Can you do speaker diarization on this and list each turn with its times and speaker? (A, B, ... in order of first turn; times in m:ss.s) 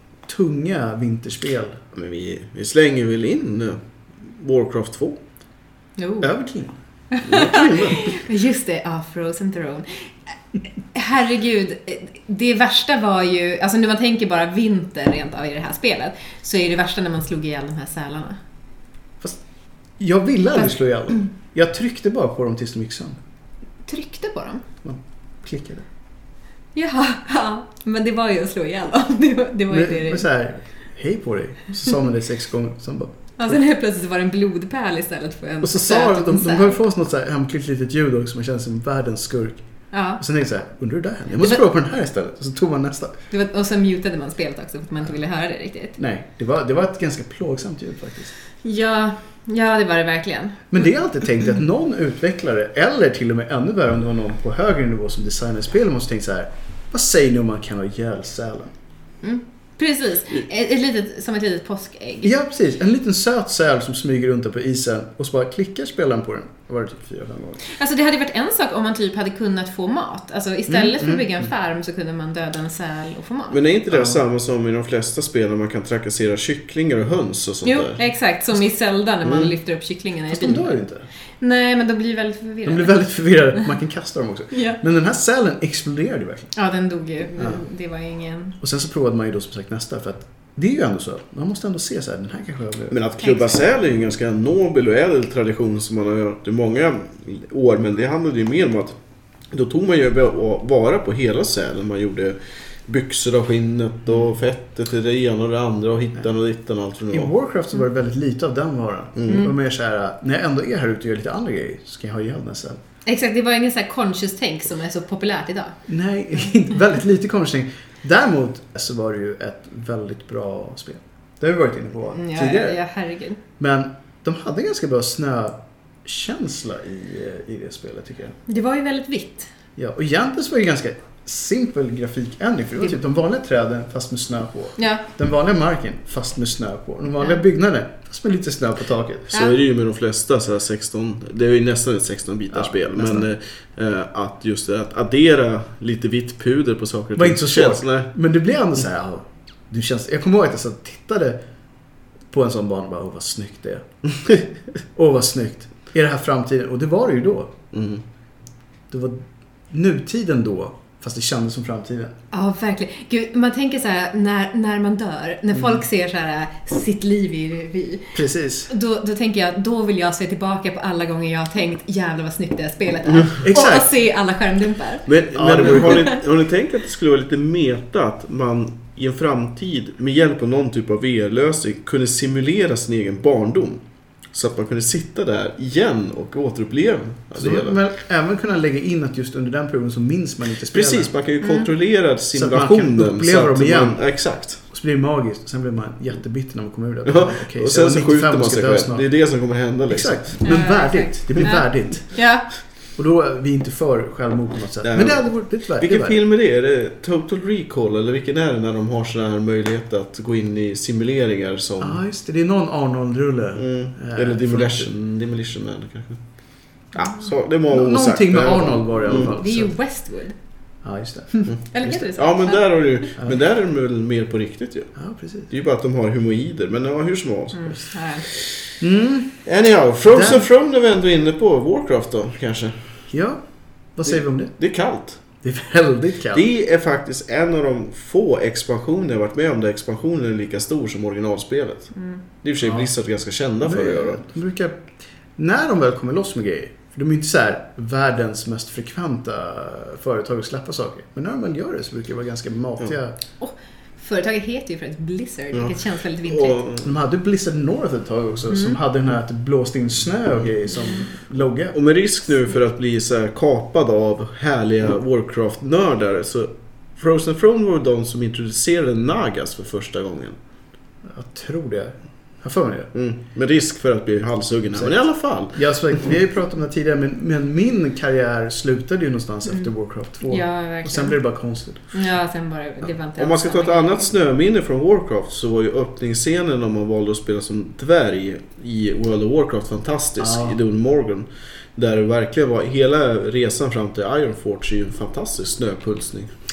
0:00.3-0:01.8 A
0:01.9-0:05.2 B
0:06.0-0:06.3 C
0:06.2-0:06.8 A
0:07.1-0:10.0 C
0:07.2-0:08.2 B
0:10.9-0:18.4 C
0:20.0-0:23.2 A
0:23.8-0:24.6 C
0:24.8-0:25.8 A
0:26.8-0:30.3 C
0:29.7-0:33.6 A
0:33.4-0:36.8 C
0:35.6-0:39.6 A
0:39.9-0:40.2 C
0:40.2-0:43.2 A
0:43.3-0:46.0 C
0:46.0-0:48.3 A
0:48.6-0:50.7 C
0:50.7-0:58.7 A
0:59.2-1:02.3 C
1:02.2-1:07.6 A
1:07.6-1:13.6 C
1:10.7-1:11.4 A
1:13.5-1:18.0 B
1:13.9-1:14.2 A
1:17.6-1:20.8 C
1:19.2-1:19.5 B
1:20.3-1:21.0 A
1:21.4-1:23.0 C
1:22.6-1:26.5 A
1:24.5-1:24.8 C
1:26.6-1:28.6 C
1:27.4-1:27.6 A
1:28.6-1:33.0 A
1:32.9-1:39.0 B
1:33.2-1:33.6 C
1:39.5-1:47.3 B
1:47.1-1:52.8 A
1:49.2-1:49.4 B
1:53.1-1:55.8 C
1:55.9-2:02.8 A
2:02.2-2:03.4 C
2:03.6-2:08.4 A
2:08.5-2:09.5 C
2:09.8-2:19.4 A
2:14.8-2:15.0 C
2:19.3-2:28.1 B
2:22.5-2:23.3 A
2:27.2-2:31.4 A
2:32.3-2:33.9 A
2:35.0-2:37.6 A
2:37.7-2:38.0 B
2:38.9-2:42.1 A
2:42.3-2:48.1 C
2:48.1-2:48.7 A
2:48.7-2:56.2 C
2:53.4-2:53.9 A
2:55.1-3:07.8 B
2:55.4-2:56.1 A
3:07.3-3:11.1 A
3:10.7-3:14.6 B
3:11.4-3:11.7 C
3:12.3-3:14.0 A
3:14.6-3:19.0 A
3:17.0-3:20.3 B
3:19.9-3:22.1 A
3:20.4-3:22.5 C
3:23.0-3:26.2 A
3:24.8-3:32.0 B
3:31.8-3:34.9 A
3:33.6-3:36.2 B
3:36.9-3:39.3 B
3:37.7-3:39.7 A
3:39.1-3:40.4 C
3:40.8-3:41.5 A
3:41.5-3:44.9 B
3:41.7-3:43.1 C
3:45.0-3:45.5 A
3:45.5-3:48.6 B
3:47.6-3:48.3 C
3:48.8-3:49.4 A
3:49.5-3:52.8 B
3:50.1-3:50.4 A
3:53.1-3:53.4 A
3:54.0-3:54.6 A
3:54.6-3:55.2 B
3:55.4-3:56.4 A
3:56.3-4:01.9 B
4:01.9-4:02.2 C
4:02.4-4:04.2 B
4:02.6-4:02.9 A
4:03.6-4:04.8 A
4:05.4-4:13.2 A
4:13.4-4:16.6 C
4:15.5-4:16.8 B
4:16.8-4:21.8 A
4:21.7-4:30.4 B
4:31.1-4:32.9 A
4:32.9-4:35.6 B
4:34.8-4:35.0 A
4:35.5-4:41.8 A
4:40.3-4:41.2 C
4:41.9-4:44.1 C
4:43.2-4:56.3 B
4:50.2-4:50.6 A